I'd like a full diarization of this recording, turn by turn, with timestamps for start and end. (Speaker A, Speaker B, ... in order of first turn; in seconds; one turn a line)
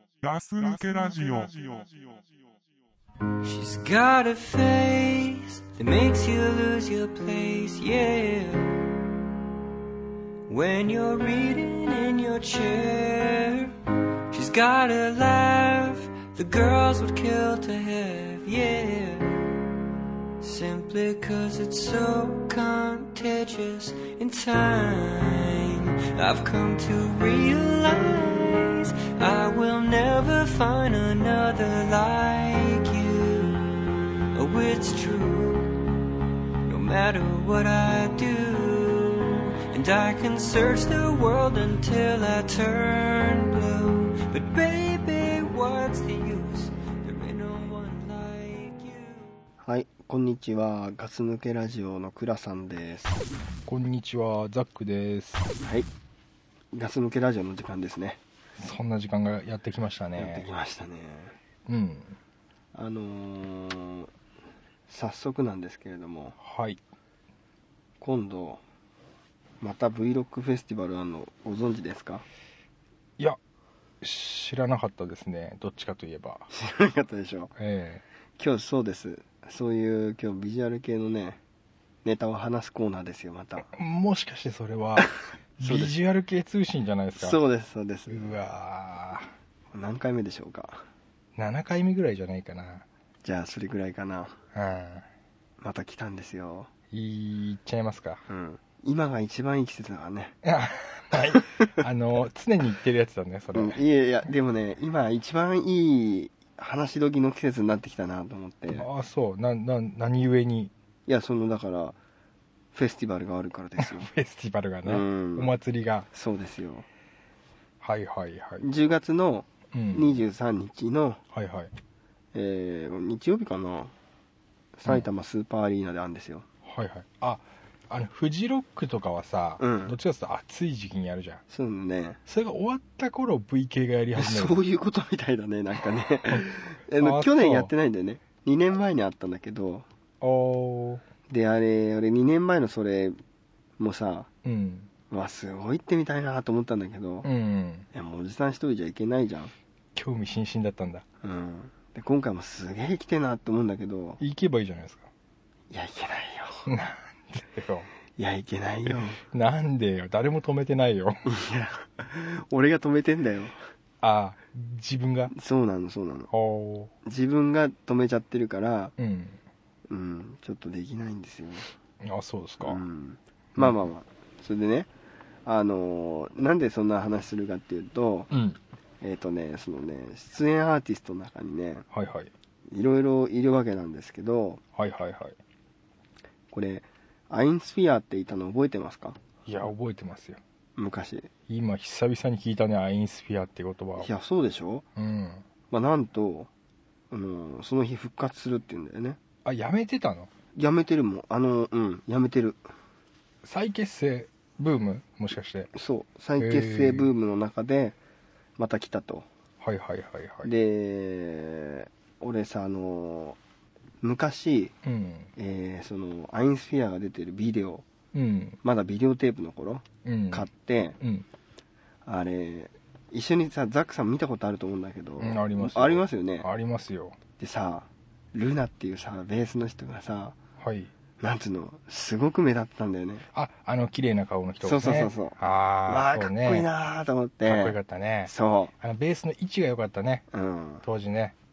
Speaker A: 0.2-2.2
Speaker B: 3.4-8.9
Speaker B: 10.5-13.7
Speaker B: 14.3-19.4
Speaker B: 20.4-33.7
Speaker B: 34.3-35.8
Speaker B: 36.6-49.4
Speaker C: 49.6-53.2
Speaker D: 53.7-55.5
Speaker C: 55.6-55.9
Speaker C: 56.7-58.2
Speaker D: 58.6-60.5
Speaker C: 60.2-61.4
Speaker D: 61.7-62.2
Speaker C: 62.7-64.1
Speaker C: 64.9-66.3
Speaker D: 66.4-66.8
Speaker C: 68.0-68.6
Speaker C: 69.6-72.2
Speaker D: 74.0-76.5
Speaker C: 76.5-77.5
Speaker D: 77.6-78.0
Speaker C: 78.4-81.4
Speaker C: 82.0-83.7
Speaker D: 83.7-87.4
Speaker C: 85.6-86.0
Speaker C: 87.2-88.4
Speaker D: 88.1-89.3
Speaker C: 89.7-90.8
Speaker D: 91.4-92.8
Speaker C: 93.2-94.4
Speaker D: 94.5-95.0
Speaker C: 95.6-96.7
Speaker D: 96.9-98.2
Speaker C: 98.3-100.3
Speaker D: 100.4-103.8
Speaker C: 101.3-101.8
Speaker C: 103.5-108.9
Speaker D: 108.7-110.7
Speaker C: 111.1-112.0
Speaker C: 112.7-114.1
Speaker D: 113.8-116.1
Speaker C: 114.9-115.5
Speaker C: 116.1-116.9
Speaker D: 117.8-118.7
Speaker C: 118.6-121.2
Speaker D: 119.7-120.2
Speaker D: 121.3-121.7
Speaker C: 122.3-123.9
Speaker C: 124.8-126.5
Speaker D: 126.6-131.4
Speaker C: 129.6-130.0
Speaker C: 131.5-132.2
Speaker D: 132.3-134.6
Speaker C: 134.2-139.9
Speaker D: 137.0-137.7
Speaker D: 140.2-141.0
Speaker C: 141.3-143.2
Speaker C: 143.8-144.3
Speaker D: 144.4-144.9
Speaker C: 145.1-147.3
Speaker D: 147.2-147.9
Speaker C: 147.9-149.5
Speaker D: 149.9-151.1
Speaker C: 151.2-154.2
Speaker D: 154.2-155.1
Speaker C: 155.7-156.7
Speaker D: 156.7-157.9
Speaker C: 158.2-159.2
Speaker D: 158.9-161.2
Speaker C: 161.3-163.6
Speaker D: 164.0-165.3
Speaker C: 165.3-166.3
Speaker D: 166.3-166.9
Speaker C: 167.1-168.9
Speaker D: 169.0-169.4
Speaker C: 169.9-171.7
Speaker D: 172.0-172.8
Speaker C: 172.6-174.9
Speaker C: 175.4-178.3
Speaker D: 178.3-178.6
Speaker C: 179.0-181.8
Speaker D: 181.9-182.3
Speaker C: 182.7-184.6
Speaker D: 184.8-185.4
Speaker C: 186.5-189.2
Speaker D: 189.5-190.4
Speaker C: 190.8-191.3
Speaker D: 191.5-194.1
Speaker C: 194.0-194.8
Speaker D: 195.0-195.4
Speaker C: 195.7-196.5
Speaker C: 197.1-199.2
Speaker D: 199.4-200.3
Speaker C: 200.6-202.6
Speaker D: 203.4-205.7
Speaker C: 205.7-208.0
Speaker D: 206.4-207.1
Speaker C: 208.6-209.3
Speaker D: 209.6-210.5
Speaker C: 210.4-213.4
Speaker C: 214.0-214.7
Speaker D: 214.8-215.3
Speaker C: 215.4-217.8
Speaker D: 218.1-218.6
Speaker C: 218.6-221.0
Speaker D: 220.0-220.5
Speaker D: 221.0-221.3
Speaker C: 222.1-226.5
Speaker D: 225.2-227.2
Speaker C: 227.4-230.3
Speaker D: 230.6-230.9
Speaker C: 231.2-233.2
Speaker D: 233.3-236.7
Speaker C: 234.6-235.4
Speaker C: 235.9-238.7
Speaker D: 237.5-240.2
Speaker C: 240.3-240.8
Speaker D: 240.8-241.3